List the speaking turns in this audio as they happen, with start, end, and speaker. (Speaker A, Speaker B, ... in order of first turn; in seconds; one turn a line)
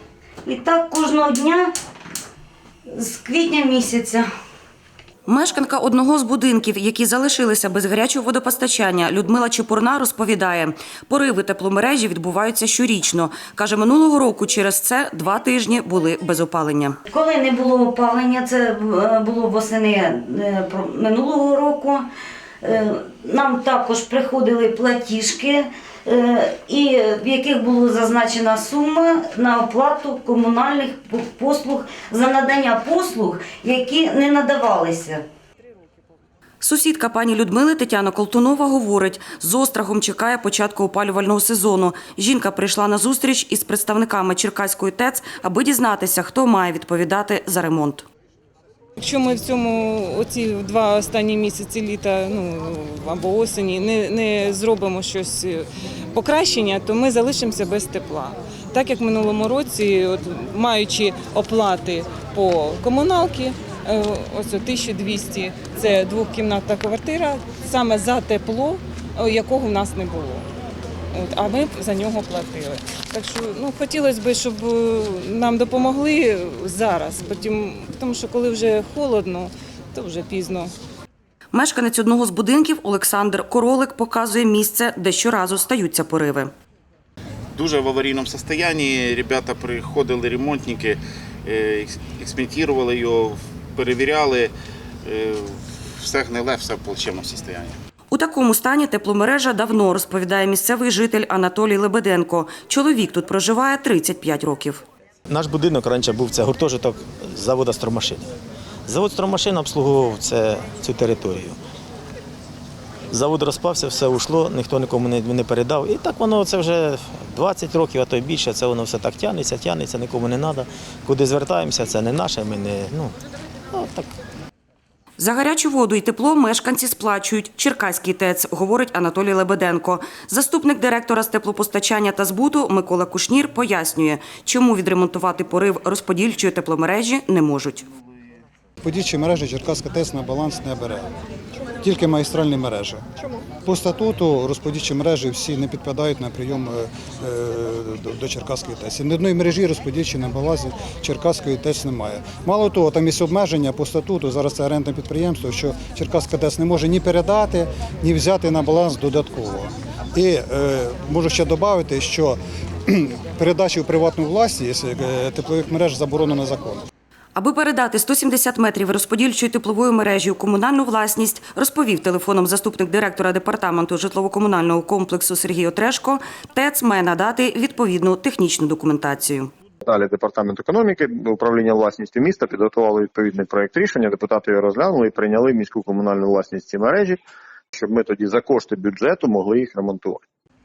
Speaker A: 0.4-1.7
Speaker A: 2.9-4.2
Speaker B: 5.2-17.0
Speaker A: 17.1-22.1
Speaker A: 22.6-35.2
Speaker B: 36.6-48.0
Speaker C: 49.0-70.5
Speaker C: 71.1-80.7
Speaker B: 81.5-86.5
Speaker D: 87.5-94.5
Speaker D: 95.0-97.8
Speaker B: 98.1-104.8
Speaker E: 105.3-108.3
Speaker E: 108.8-111.6
Speaker E: 113.1-123.2
Speaker E: 123.7-124.1
Speaker B: 125.2-137.9
Speaker F: 138.8-141.1
Speaker F: 141.8-143.0
Speaker F: 143.6-166.8
Speaker B: 167.3-179.5
Speaker G: 179.8-187.2
Speaker G: 187.7-190.2